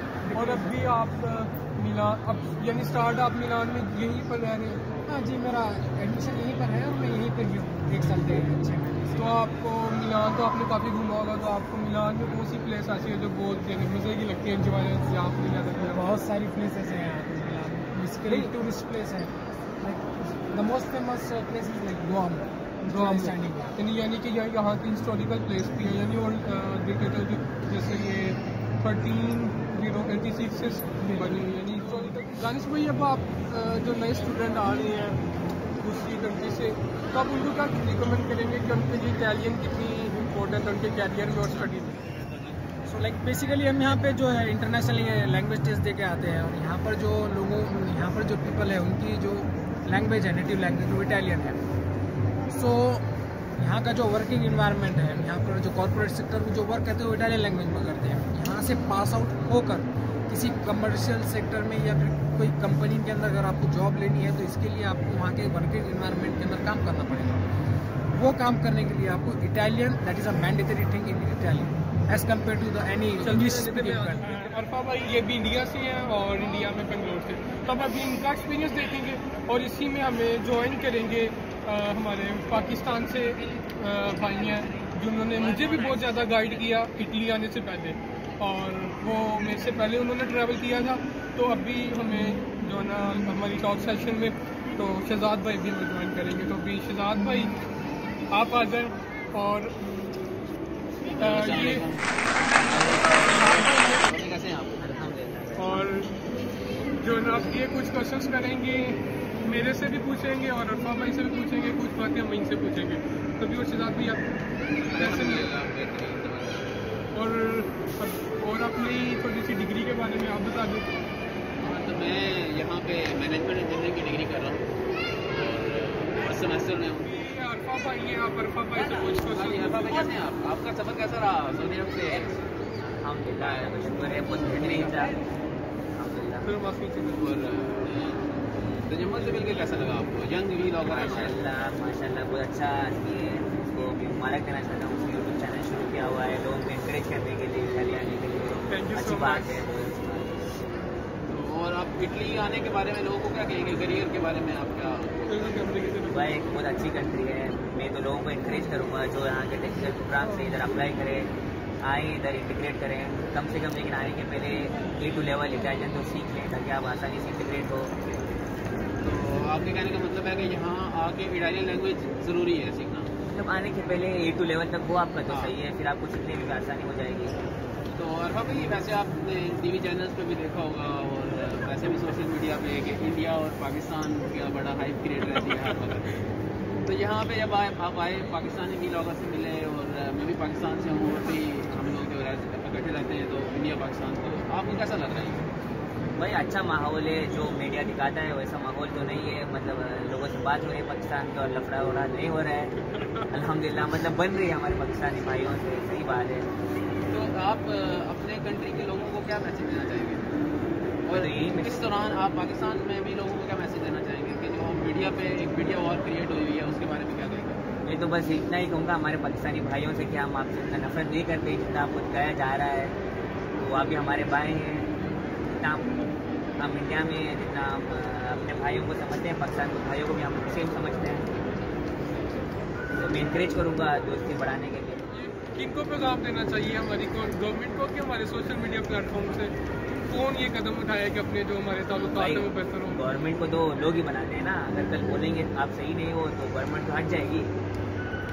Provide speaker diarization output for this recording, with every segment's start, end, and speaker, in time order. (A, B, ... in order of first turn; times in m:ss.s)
0:00.2-0:00.8 A
0:00.3-0:04.8 B
0:05.1-0:09.4 A
0:09.2-0:16.0 B
0:15.8-0:23.7 A
0:18.3-0:18.6 B
0:22.8-0:35.2 B
0:31.0-0:31.4 A
0:35.8-0:42.0 B
0:42.9-0:51.6 A
0:52.5-0:53.1 A
0:53.6-1:07.5 A
1:08.1-1:14.3 A
1:13.2-1:37.5 B
1:38.3-1:39.8 B
1:41.2-1:41.9 B
1:41.2-1:44.8 C
1:43.0-1:44.1 B
1:44.8-1:45.9 D
1:45.6-1:46.1 B
1:47.0-1:54.2 B
1:54.7-1:56.8 C
1:55.0-1:55.5 B
1:57.1-2:00.9 B
2:01.6-2:04.7 C
2:05.3-2:07.2 C
2:07.1-2:10.2 B
2:09.0-2:12.4 C
2:12.9-2:15.2 D
2:13.4-2:14.9 C
2:16.0-2:16.5 D
2:16.4-2:17.3 B
2:17.2-2:18.2 C
2:18.9-2:21.4 C
2:20.9-2:30.5 D
2:28.7-2:29.6 B
2:31.3-2:35.4 C
2:35.3-2:36.3 B
2:36.1-2:41.3 D
2:41.8-2:48.2 D
2:49.0-2:53.1 C
2:53.3-2:57.4 D
2:55.3-2:55.5 C
2:57.9-3:06.2 C
3:06.8-3:15.5 C
3:16.2-3:22.7 D
3:23.3-3:26.5 D
3:27.1-3:30.3 C
3:31.1-3:37.6 C
3:31.1-3:31.9 D
3:37.8-3:43.0 D
3:43.6-3:44.9 D
3:45.6-3:46.0 D
3:46.6-3:51.3 D
3:52.9-3:55.0 D
3:55.1-3:59.5 B
4:00.1-4:03.0 B
4:02.0-4:07.5 D